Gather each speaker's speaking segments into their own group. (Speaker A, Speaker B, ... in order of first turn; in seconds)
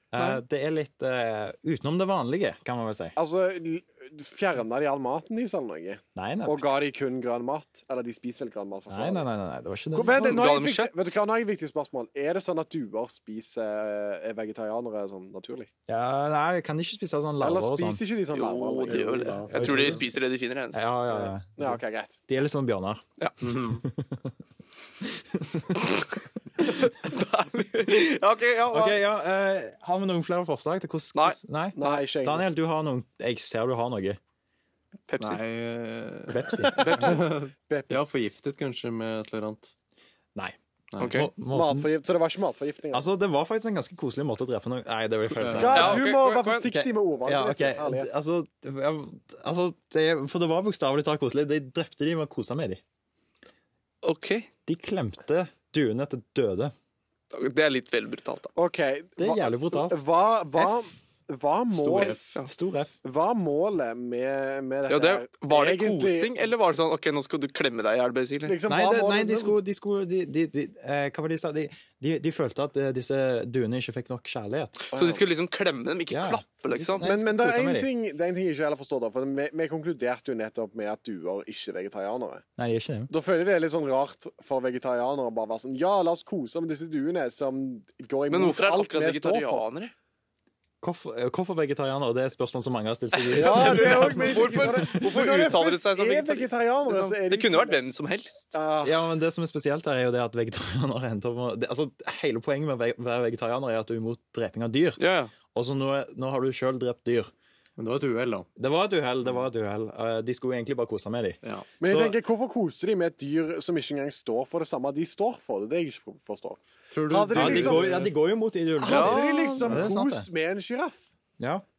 Speaker A: 0.1-3.1, 6.1-6.6, 8.9-10.5, 15.9-18.0, 19.5-20.1, 20.7-24.3, 25.0-25.9, 28.7-34.2, 36.3-37.2, 41.1-41.9, 42.9-46.1, 46.6-52.8, 54.6-56.7, 59.2-60.0, 62.5-62.9, 68.7-74.8, 76.1-77.9, 82.6-83.1, 90.8-94.9, 98.8-107.3, 108.6-111.4, 117.3-120.3, 121.4-121.6
Speaker B: 3.1-9.3, 9.9-15.7, 17.4-19.5, 21.1-22.2, 31.8-32.5, 37.7-38.1, 41.5-43.1, 45.5-48.1, 58.5-62.2, 63.0-66.3, 68.5-69.6, 74.9-75.2, 77.0-82.4, 83.1-89.6, 93.3-97.8, 98.5-98.9, 111.8-117.9, 118.8-121.0
Speaker C: 10.0-11.1, 18.3-20.8, 26.6-29.0, 35.1-35.4, 36.8-37.2, 41.0-41.3, 45.6-46.7, 54.0-54.5, 57.3-58.5, 62.0-62.5, 64.9-68.6, 74.9-77.1, 88.3-89.9, 93.2-98.5, 105.0-105.3, 118.8-119.7
Speaker D: 18.9-20.0, 35.2-39.7, 40.9-41.2, 45.3-46.0, 61.7-62.2, 107.8-108.5, 111.4-111.7, 116.9-118.1